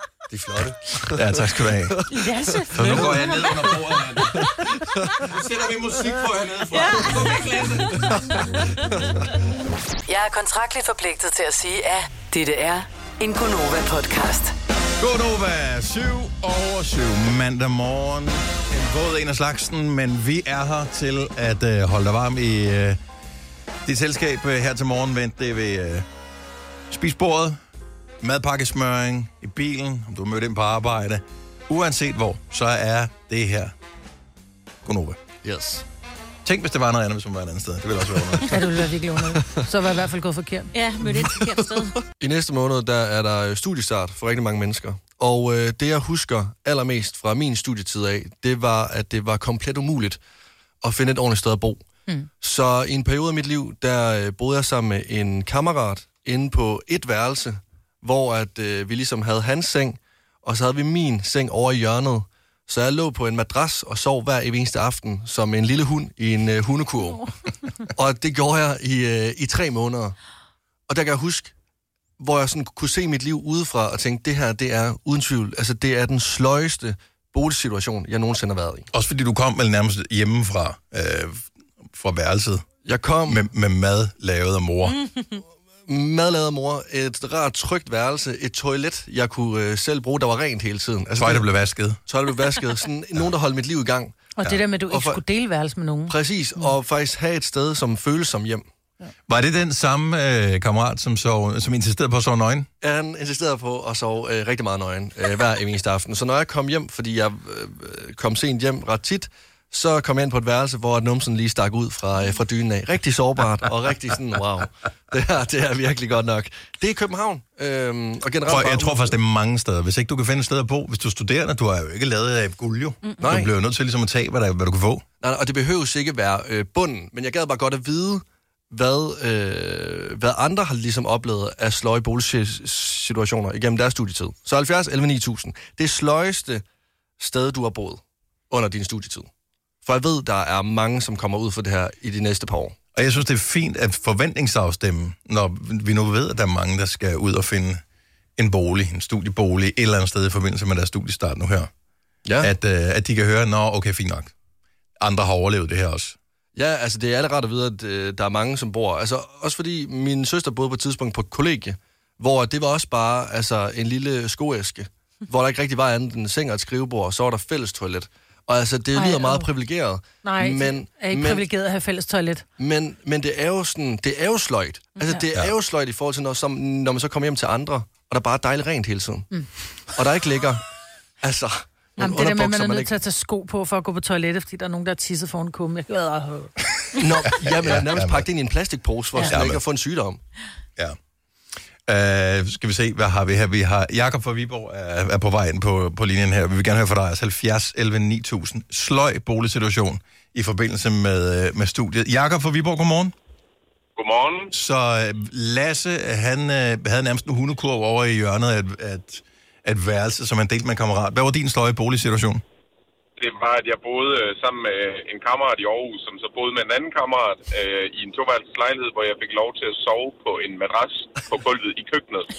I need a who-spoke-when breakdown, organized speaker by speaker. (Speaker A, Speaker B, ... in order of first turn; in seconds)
Speaker A: 0.3-3.7, 4.3-5.3, 8.1-9.2, 35.4-35.8, 41.0-41.4, 42.2-50.2, 50.8-51.8, 52.4-67.3, 67.9-70.2, 70.9-71.5, 72.2-78.9, 82.8-83.4, 85.9-91.5, 92.1-94.2, 94.9-95.2, 96.1-98.7, 102.8-119.2, 123.2-123.5, 125.2-136.6, 137.2-139.3, 139.8-142.8, 152.2-152.5, 156.6-171.4, 172.6-179.3, 179.9-180.7, 181.2-182.9, 187.0-190.2
Speaker B: 1.1-2.0, 2.7-4.7, 5.2-8.2, 15.0-23.0, 23.9-26.1, 26.9-27.6, 28.2-33.7, 34.8-35.2, 36.5-38.5, 78.9-82.7, 83.3-85.0, 91.2-92.0, 99.3-102.7, 118.5-125.0, 142.9-147.8, 148.4-151.7, 152.4-154.3, 155.0-156.2, 187.3-188.3, 189.3-189.6, 191.9-203.1, 204.5-212.4
Speaker C: 2.1-3.5, 38.5-40.7, 94.4-96.2, 168.9-169.5, 170.2-172.5, 182.0-186.5
Speaker D: 6.7-8.0, 40.7-42.0
Speaker E: 10.1-14.5
Speaker F: 204.0-204.5, 213.2-222.3